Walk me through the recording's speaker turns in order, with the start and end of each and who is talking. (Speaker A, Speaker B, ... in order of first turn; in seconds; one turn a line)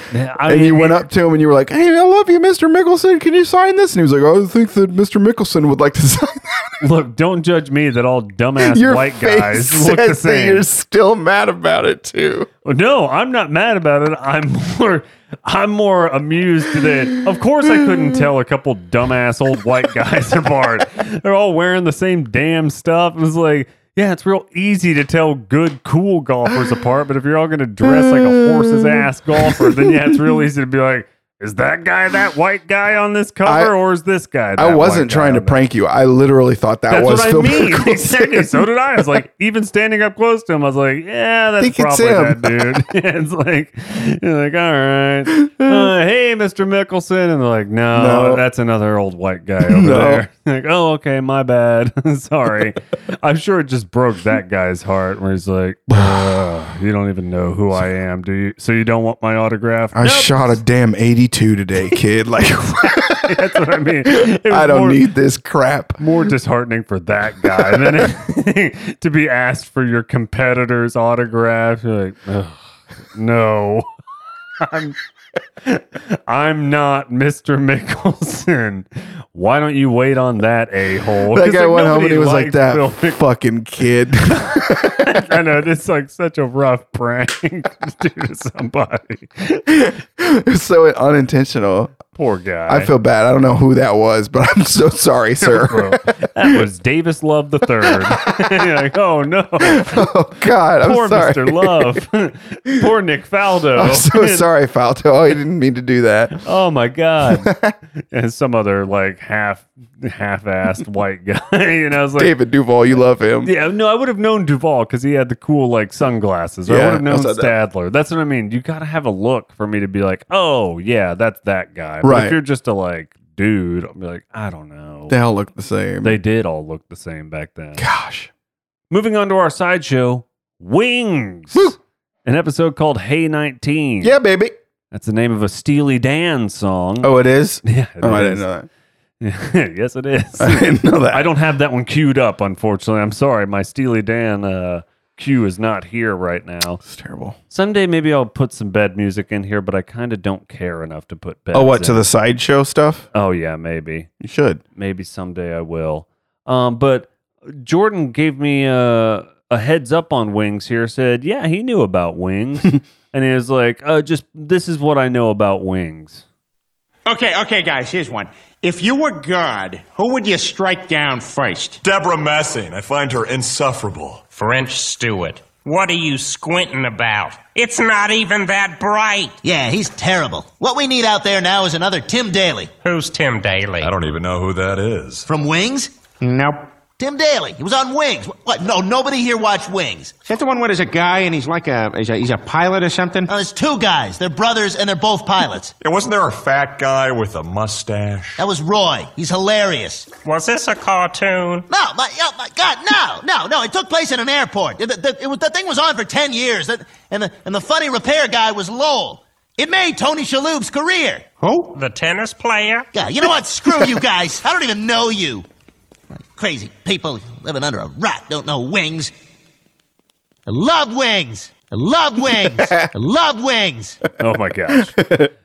Speaker A: 0.1-1.0
Speaker B: 0.5-6.8
Speaker A: 6.8-10.7
Speaker B: 8.6-12.5
Speaker A: 12.6-35.6
Speaker B: 27.8-30.3
Speaker B: 33.4-33.7
Speaker B: 34.6-38.5
Speaker A: 36.9-60.6
Speaker B: 41.6-42.8
Speaker B: 45.5-45.9
Speaker B: 47.9-48.4
Speaker B: 49.6-50.2
Speaker B: 59.9-63.4
Speaker A: 62.8-65.0
Speaker B: 64.0-66.0
Speaker A: 66.0-73.9
Speaker B: 67.7-68.0
Speaker A: 74.6-75.0
Speaker A: 75.6-83.2
Speaker B: 81.3-85.2
Speaker A: 84.4-89.8
Speaker B: 89.7-92.0
Speaker A: 92.1-92.9
Speaker B: 92.7-96.6
Speaker A: 95.4-100.1
Speaker B: 97.8-98.5
Speaker B: 99.6-102.0
Speaker A: 100.8-104.4
Speaker B: 103.8-106.4
Speaker A: 106.3-107.5
Speaker B: 107.2-107.7
Speaker A: 108.1-112.3
Speaker B: 112.2-113.5
Speaker A: 113.4-125.2
Speaker B: 116.7-117.5
Speaker B: 122.0-122.4
Speaker B: 125.1-126.2
Speaker A: 126.0-127.8
Speaker B: 127.8-128.3
Speaker A: 128.9-134.2
Speaker B: 134.0-134.5
Speaker A: 134.9-138.4
Speaker B: 137.0-138.7
Speaker A: 139.2-146.8
Speaker B: 140.4-141.3
Speaker B: 146.8-147.4
Speaker A: 147.5-152.1
Speaker B: 151.5-153.1
Speaker A: 153.1-154.1
Speaker B: 154.2-154.6
Speaker A: 154.8-166.2
Speaker C: 167.1-171.8
Speaker D: 171.8-174.2
Speaker E: 174.3-179.4
Speaker F: 179.4-182.7
Speaker E: 182.8-183.9
Speaker D: 183.8-185.2
Speaker F: 185.3-185.9
Speaker C: 186.2-186.7
Speaker F: 187.0-190.1
Speaker C: 190.2-193.3
Speaker F: 193.3-195.7
Speaker D: 195.8-198.4
Speaker F: 198.4-200.1
Speaker E: 200.2-201.7
Speaker F: 201.7-211.2
Speaker C: 211.4-211.8
Speaker E: 211.7-212.9
Speaker F: 212.9-215.4
Speaker F: 216.1-219.1
Speaker F: 220.5-224.0
Speaker A: 224.2-225.1
Speaker B: 224.7-225.3